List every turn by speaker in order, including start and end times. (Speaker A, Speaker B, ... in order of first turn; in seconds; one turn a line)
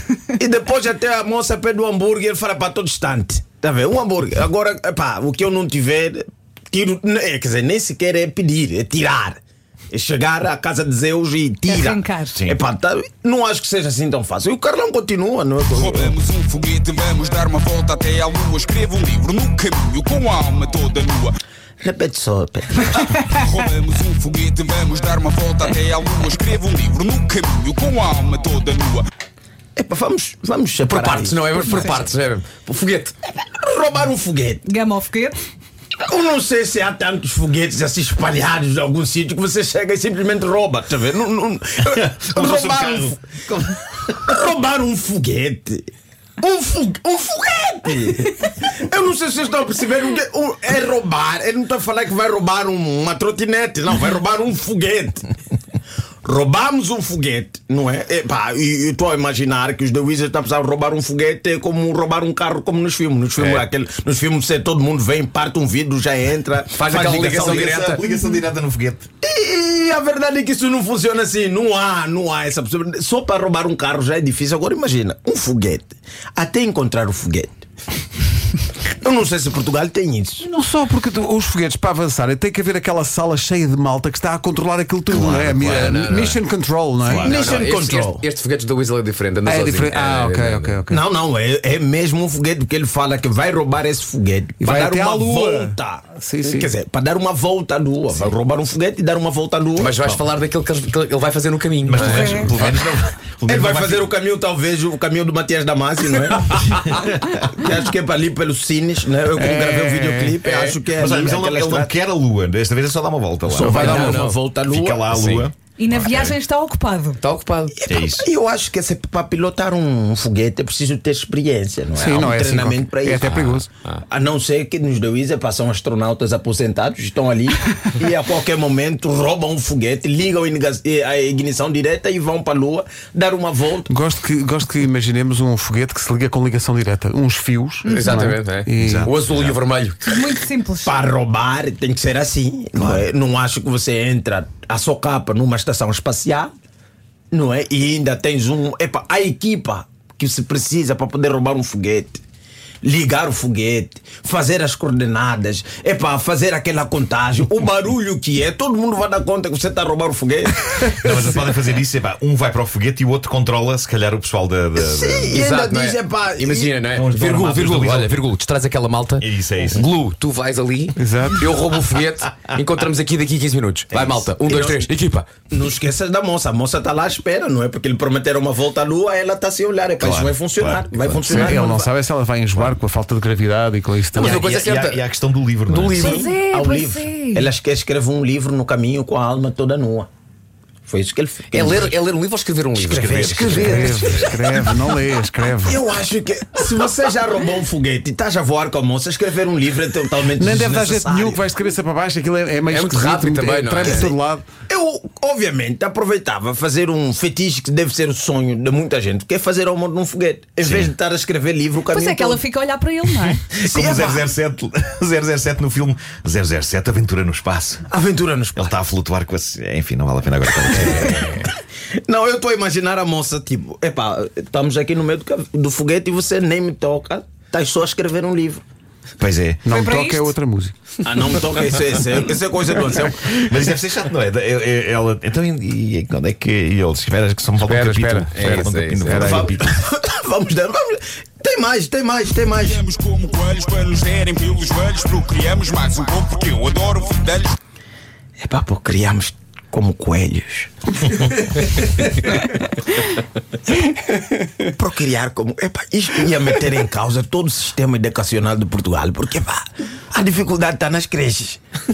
Speaker A: 0.3-9.4
Speaker A: 9.9-16.1
Speaker B: 11.7-12.4
Speaker C: 15.7-21.3
Speaker A: 21.8-23.2
Speaker C: 23.3-29.1
Speaker A: 29.8-31.7
Speaker D: 30.9-33.1
Speaker B: 31.6-32.0
Speaker A: 33.5-34.6
Speaker B: 34.6-35.4
Speaker A: 36.0-43.2
Speaker E: 41.9-44.0
Speaker A: 44.1-45.9
Speaker A: 46.4-55.2
Speaker A: 56.2-68.0
Speaker D: 63.4-63.6
Speaker D: 66.7-68.0
Speaker E: 67.1-69.0
Speaker A: 69.2-77.6
Speaker A: 79.0-80.4
Speaker F: 80.4-87.3
Speaker E: 85.1-86.0
Speaker D: 85.4-86.4
Speaker D: 87.1-90.8
Speaker E: 87.1-87.7
Speaker A: 87.2-88.2
Speaker F: 89.4-91.0
Speaker A: 90.9-100.0
Speaker F: 94.6-96.7
Speaker D: 99.8-102.5
Speaker E: 101.8-104.1
Speaker B: 102.1-102.5
Speaker A: 103.4-111.9
Speaker F: 109.4-110.4
Speaker D: 110.4-110.8
Speaker E: 110.9-113.9
Speaker A: 113.5-115.0
Speaker D: 113.6-114.4
Speaker E: 114.6-116.3
Speaker D: 115.1-115.5
Speaker B: 115.7-117.2
Speaker D: 117.2-117.8
Speaker A: 117.8-133.9
Speaker E: 117.9-118.2
Speaker F: 121.9-123.7
Speaker D: 123.2-124.0
Speaker F: 133.9-139.1
Speaker B: 137.8-138.2
Speaker D: 137.9-140.1
Speaker E: 138.8-139.6
Speaker B: 140.1-140.9
Speaker A: 140.8-146.5
Speaker A: 147.3-152.2
Speaker A: 152.8-161.5
Speaker E: 160.9-165.3
Speaker A: 164.8-166.8
Speaker D: 165.3-175.3
Speaker E: 166.9-168.2
Speaker E: 169.2-169.9
Speaker F: 170.9-171.5
Speaker A: 173.9-174.9
Speaker A: 175.5-181.9
Speaker E: 180.0-181.4
Speaker F: 181.2-184.4
Speaker D: 184.1-185.1
Speaker E: 184.2-186.2
Speaker D: 185.7-186.3
Speaker B: 186.0-187.5
Speaker A: 186.1-190.1
Speaker A: 190.9-191.9
Speaker D: 191.5-193.9
Speaker A: 192.8-194.8
Speaker E: 192.8-194.3
Speaker F: 193.4-195.8
Speaker A: 195.6-201.4
Speaker F: 200.4-204.4
Speaker D: 202.7-204.1
Speaker A: 203.8-212.4
Speaker E: 210.6-210.9
Speaker B: 211.9-213.5
Speaker E: 213.5-217.8
Speaker A: 213.6-214.3
Speaker A: 217.9-218.8
Speaker E: 218.6-221.4
Speaker A: 220.8-221.5
Speaker A: 222.0-228.6
Speaker E: 229.2-229.6
Speaker F: 229.6-230.7
Speaker B: 229.7-230.3
Speaker A: 231.0-233.4
Speaker E: 233.3-239.7
Speaker F: 237.6-239.6
Speaker D: 238.3-239.3
Speaker A: 239.1-242.8
Speaker C: 242.6-247.6
Speaker A: 248.4-251.3
Speaker A: 254.6-261.6